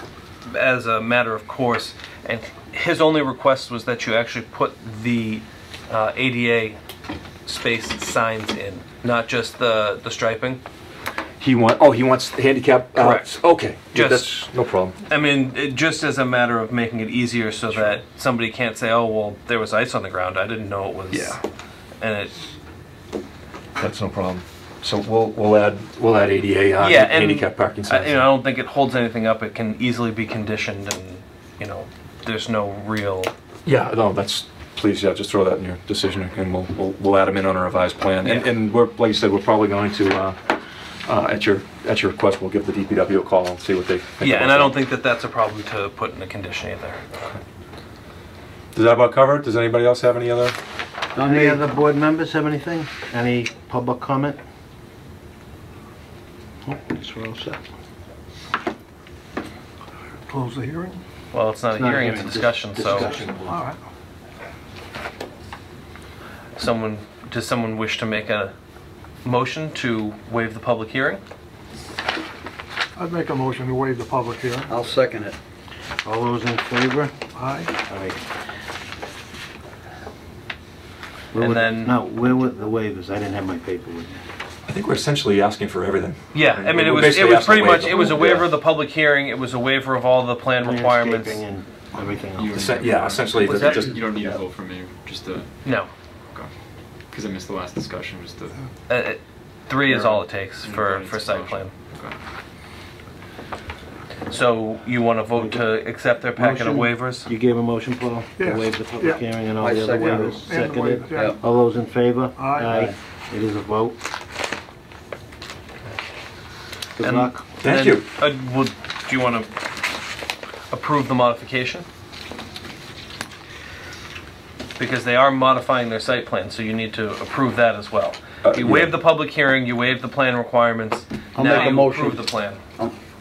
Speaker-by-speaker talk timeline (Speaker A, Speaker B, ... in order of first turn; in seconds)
Speaker A: 0.5-6.8, 7.5-10.6, 13.0-13.3, 13.9-14.3, 15.1-21.4, 22.0-22.4, 26.8-33.3, 38.2-38.5, 44.2-47.0, 61.3-63.1, 66.6-68.5, 69.2-71.2, 81.4-82.0, 86.3-91.4, 93.4-93.9, 95.6-95.9, 98.9-101.7, 104.3-107.3, 117.0-119.5, 120.7-121.8, 124.8-132.6
Speaker B: 11.4-15.0, 21.1-21.4, 23.8-28.2, 33.7-40.4, 41.1-44.8, 48.7-50.6, 63.0-63.5, 84.7-88.5, 92.5-94.4, 117.6-118.1, 128.5-128.9
Speaker C: 51.1-51.6, 74.7-75.4, 109.6-110.5, 131.3-132.9
Speaker D: 51.2-54.4, 56.6-57.6, 61.7-63.5, 76.0-77.1, 77.8-78.2, 81.3-84.2, 90.6-92.9, 105.3-105.6, 106.4-114.0, 117.0-117.4
Speaker E: 60.3-61.0, 63.5-63.8, 73.0-74.8, 77.3-77.7, 108.4-109.2, 110.0-111.4, 112.4-112.9
Speaker F: 92.4-95.7, 97.1-98.6, 99.8-102.2